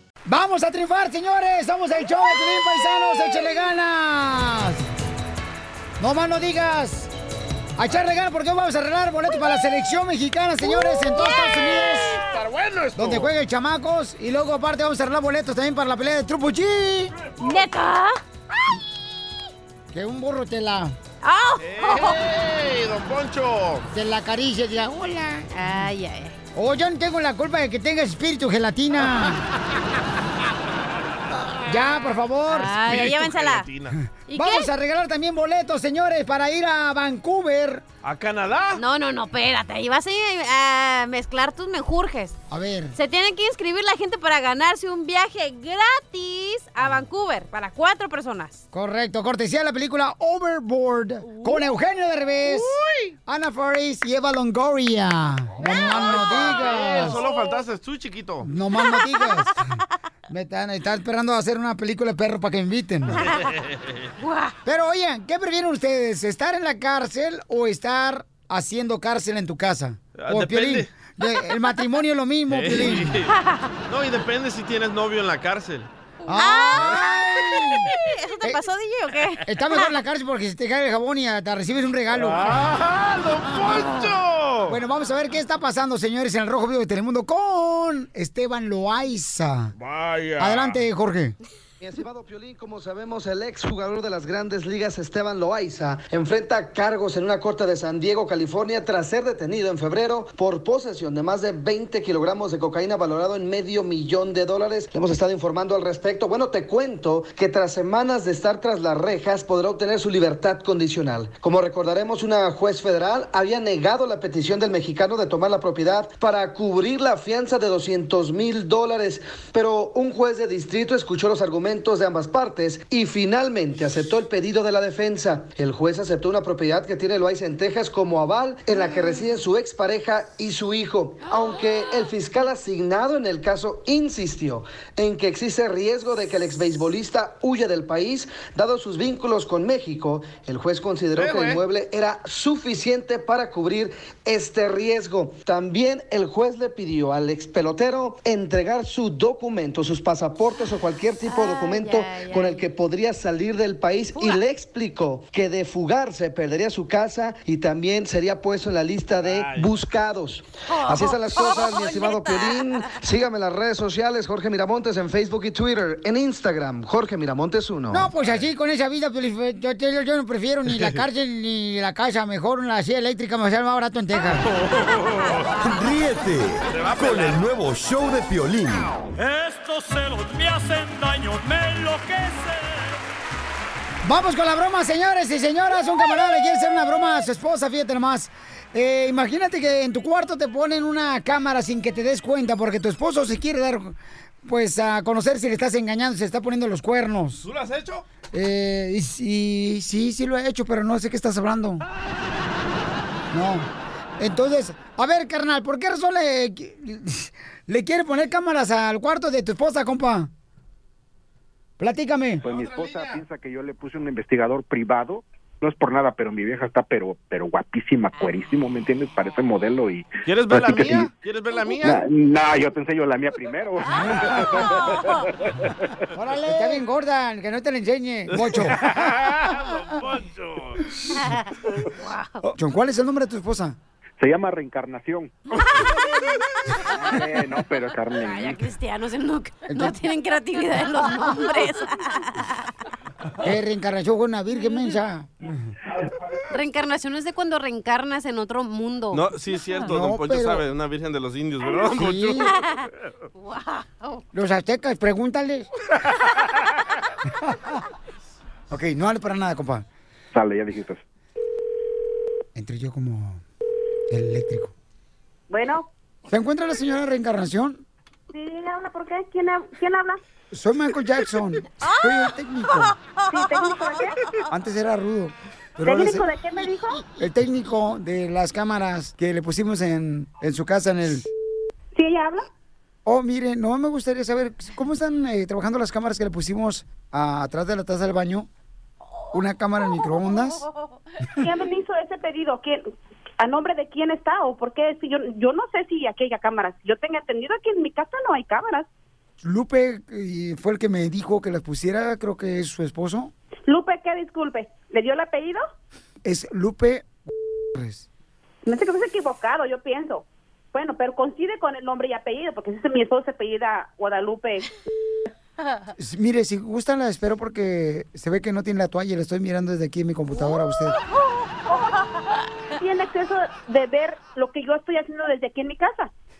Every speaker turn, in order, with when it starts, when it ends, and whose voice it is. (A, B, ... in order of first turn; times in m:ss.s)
0:00.3-0:04.8 A
0:06.0-0:07.1 A
0:07.8-0:12.2 A
0:10.8-0:12.0 B
0:12.2-0:13.3 C
0:13.0-0:17.1 A
0:17.4-0:18.2 B
0:19.9-0:20.9 A
0:21.2-0:22.2 B
0:21.6-0:23.8 C
0:23.9-0:25.9 A
0:25.5-0:26.4 B
0:26.5-0:29.4 A
0:31.7-0:33.0 A
0:32.5-0:33.7 B
0:32.8-0:34.0 C
0:34.3-0:34.7 B
0:34.3-0:37.8 A
0:38.0-0:38.8 C
0:38.8-0:42.4 B
0:42.5-0:43.0 A
0:42.9-0:48.6 B
0:48.7-0:57.2 A
0:52.4-0:53.1 C
0:55.6-0:58.5 C
0:55.6-0:57.6 B
0:58.4-0:59.6 A
1:00.3-1:03.3 A
1:03.2-1:04.1 C
1:04.2-1:04.6 B
1:04.6-1:13.2 A
1:10.2-1:10.9 C
1:12.5-1:13.3 C
1:13.3-1:13.7 B
1:13.9-1:15.9 C
1:16.3-1:17.9 A
1:16.3-1:20.0 B
1:19.4-1:22.8 A
1:22.1-1:24.8 C
1:23.7-1:24.0 B
1:24.7-1:29.7 A
1:29.8-1:30.8 C
1:30.4-1:31.3 A
1:31.8-2:48.1 D
2:21.1-2:21.6 C
2:31.2-2:32.6 B
2:34.1-2:34.4 B
2:39.2-2:39.7 C
2:40.7-2:42.9 B
2:47.9-2:54.5 A
2:54.6-2:55.4 C
2:55.6-2:59.0 E
2:56.7-2:57.4 C
2:59.2-3:03.0 F
3:04.0-3:17.4 A
3:17.4-3:18.0 C
3:18.3-3:21.8 A
3:23.3-3:30.3 A
3:31.8-3:33.1 A
3:32.4-3:41.1 G
3:40.2-3:42.0 C
3:40.7-3:41.0 A
3:41.8-3:45.9 G
3:43.8-3:45.3 B
3:46.1-3:48.8 A
3:48.3-3:50.8 C
3:51.1-3:52.4 B
3:52.4-3:53.8 A
3:54.2-3:55.6 G
3:56.2-3:57.2 B
3:56.9-3:58.7 G
3:58.1-4:02.7 B
3:59.7-4:00.0 A
4:03.4-4:05.7 A
4:06.5-4:09.3 B
4:09.1-4:12.5 C
4:09.8-4:10.6 A
4:11.9-4:12.5 A
4:12.4-4:14.2 B
4:14.3-4:15.7 A
4:17.4-4:17.7 A
4:18.7-4:19.8 A
4:20.3-4:21.0 G
4:22.5-4:23.4 A
4:24.1-4:24.7 A
4:25.5-4:25.8 H
4:26.3-4:27.8 A
4:28.3-4:30.2 H
4:30.5-4:32.9 A
4:31.9-4:32.2 B
4:33.3-4:34.2 H
4:34.5-4:36.3 A
4:35.8-4:37.0 H
4:37.2-4:41.3 A
4:41.9-4:42.5 H
4:43.0-4:48.5 A
4:49.3-4:50.6 A
4:51.4-4:52.8 H
4:53.4-4:58.9 H
4:59.4-5:03.3 A
5:03.7-5:05.6 H
5:06.2-5:07.1 A
5:07.7-5:08.1 A
5:08.6-5:14.7 H
5:16.0-5:21.0 A
5:22.7-5:26.1 H